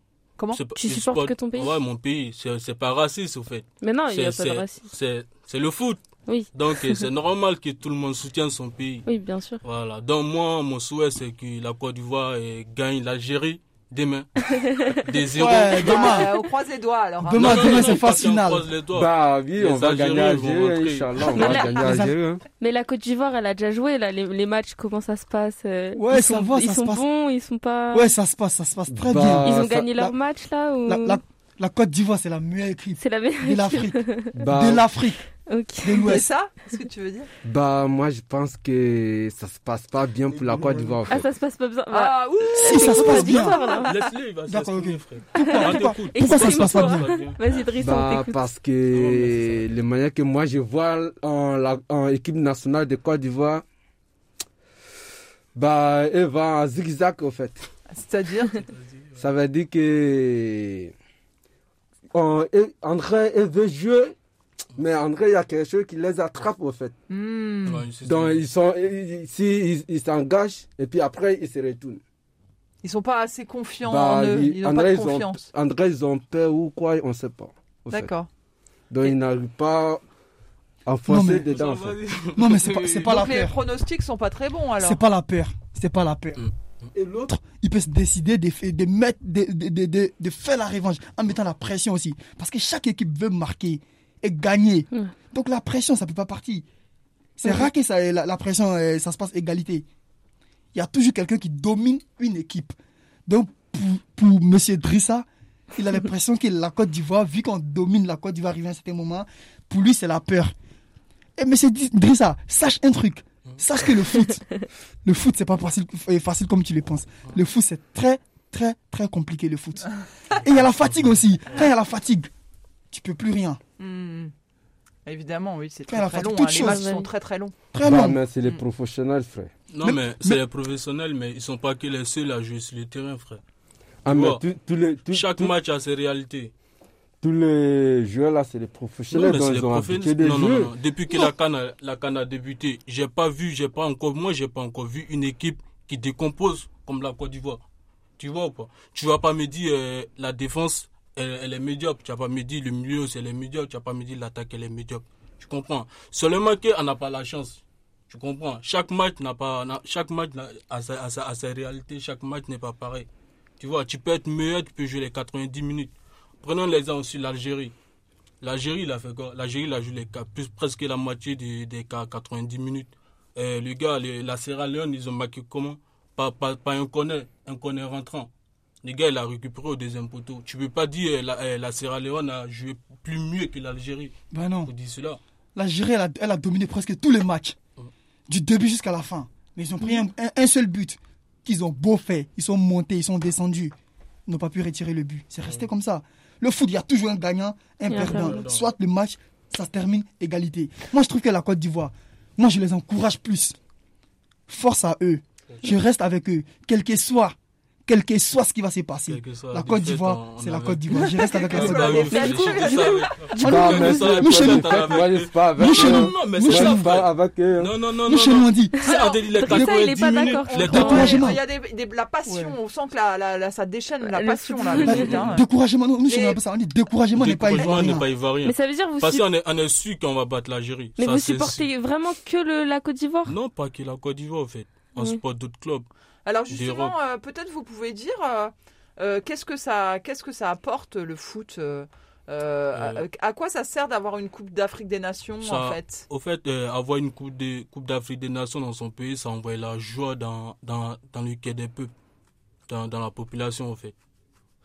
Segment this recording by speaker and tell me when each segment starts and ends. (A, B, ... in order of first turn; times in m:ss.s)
0:00.5-0:06.0 A
0:00.8-0:01.8 B
0:03.8-0:04.8 B
0:06.3-0:07.0 B
0:06.5-0:09.1 A
0:09.1-0:09.6 B
0:09.6-0:16.3 A
0:14.5-0:15.1 B
0:15.3-0:16.4 C
0:15.7-0:18.1 D
0:17.2-0:18.6 C
0:17.3-0:21.6 A
0:18.9-0:22.4 E
0:21.4-0:22.0 B
0:21.7-0:22.2 C
0:22.6-0:28.1 B
0:26.0-0:27.0 C
0:27.9-0:30.2 C
0:28.9-0:29.9 E
0:29.4-0:31.2 B
0:30.9-0:35.3 C
0:33.0-0:34.4 B
0:34.3-0:34.9 E
0:35.5-0:36.2 B
0:35.8-0:36.3 C
0:36.0-0:37.3 D
0:37.4-0:41.2 E
0:40.3-0:41.2 A
0:41.1-0:43.9 B
0:41.9-0:43.9 D
0:42.5-0:43.6 C
0:43.9-0:47.4 A
0:44.5-0:47.1 C
0:45.4-0:48.4 B
0:47.8-0:53.6 E
0:48.9-0:49.6 A
0:55.6-0:57.6 E
0:57.9-0:58.7 D
0:58.7-0:59.3 A
0:59.2-1:00.9 E
1:02.1-1:04.2 E
1:04.8-1:06.9 E
1:07.1-1:07.9 D
1:07.6-1:08.4 A
1:08.0-1:12.0 E
1:12.8-1:15.4 D
1:13.8-1:18.1 E
1:17.9-1:18.3 D
1:18.9-1:20.0 E
1:20.8-1:22.0 E
1:21.1-1:21.5 C
1:21.5-1:23.3 A
1:22.3-1:23.6 C
1:23.0-1:25.0 D
1:24.8-1:36.7 C
1:37.4-1:39.9 C
1:40.7-1:42.8 C
1:43.3-1:50.5 C
1:51.4-2:02.3 C
2:02.9-2:03.6 C
2:03.8-2:04.3 D
2:05.1-2:07.6 D
2:05.9-2:06.8 C
2:06.6-2:07.1 B
2:07.7-2:08.2 C
2:07.8-2:09.5 E
2:09.7-2:13.4 A
2:09.8-2:10.4 C
2:14.0-2:15.6 E
2:14.1-2:14.4 A
2:15.1-2:16.5 A
2:17.2-2:20.7 E
2:19.1-2:27.6 A
2:28.2-2:43.1 A
2:43.6-2:47.7 A
2:48.4-2:58.3 A
2:58.8-3:04.1 A
3:04.3-3:04.7 C
3:04.7-3:05.2 A
3:05.6-3:07.6 C
3:08.3-3:13.7 C
3:14.3-3:23.6 C
3:17.9-3:18.4 B
3:17.9-3:18.6 A
3:24.5-3:27.4 C
3:27.9-3:32.1 C
3:29.1-3:41.2 A
3:31.1-3:33.3 D
3:32.1-3:34.2 B
3:33.4-3:35.0 C
3:33.4-3:37.8 E
3:35.6-3:36.9 C
3:38.0-3:38.8 C
3:38.8-3:41.3 B
3:39.4-3:41.5 C
3:40.5-3:45.5 D
3:42.3-3:42.6 C
3:44.0-3:45.3 B
3:44.8-3:48.1 C
3:46.1-3:46.4 D
3:47.2-3:51.7 A
3:47.6-3:48.0 D
3:48.4-3:49.2 B
3:51.0-3:53.4 B
3:53.3-3:55.9 A
3:56.2-4:06.0 D
3:56.5-3:57.0 A
4:02.7-4:03.0 A
4:05.4-4:11.9 A
4:12.7-4:13.9 A